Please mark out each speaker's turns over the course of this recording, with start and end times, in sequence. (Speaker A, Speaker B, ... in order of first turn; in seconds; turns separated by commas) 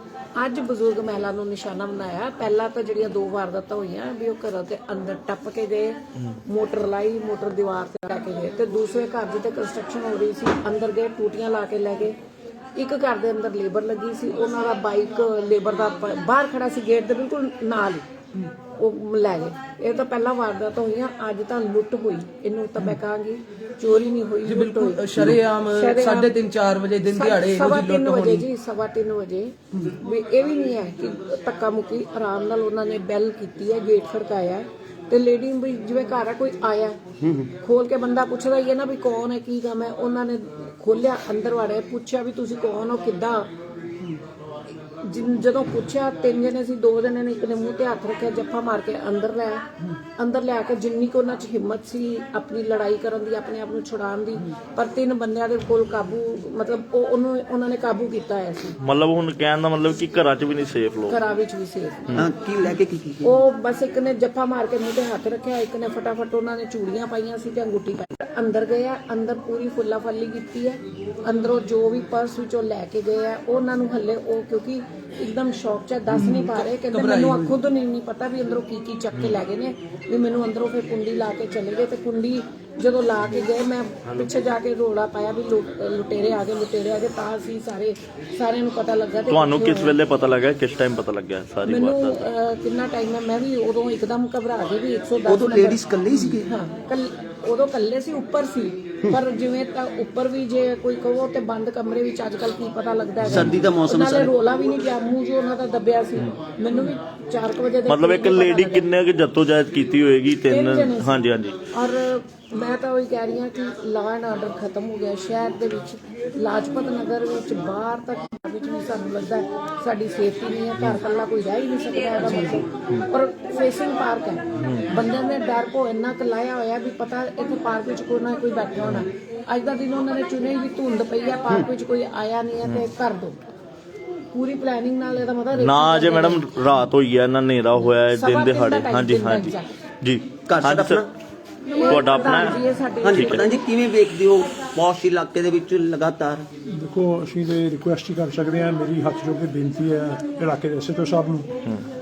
Speaker A: 0.4-12.2, Speaker A: 12.8-18.0, Speaker A: 18.8-26.4, Speaker B: 24.5-28.4, Speaker A: 27.0-37.0, Speaker A: 37.5-43.5, Speaker A: 45.0-49.6, Speaker A: 50.2-58.8, Speaker C: 58.8-61.2, Speaker A: 61.1-62.2, Speaker D: 62.1-63.4, Speaker A: 63.2-90.0, Speaker C: 89.3-92.2, Speaker A: 91.7-108.9, Speaker D: 95.2-96.5, Speaker D: 103.2-104.3, Speaker C: 103.3-103.5, Speaker C: 107.9-111.6, Speaker A: 110.5-133.4, Speaker C: 124.6-124.9, Speaker A: 134.3-136.5, Speaker C: 135.6-141.0, Speaker A: 138.0-139.8, Speaker D: 140.5-141.1, Speaker A: 141.7-143.6, Speaker C: 141.8-142.6, Speaker D: 143.0-146.5, Speaker C: 143.1-143.5, Speaker E: 146.7-151.6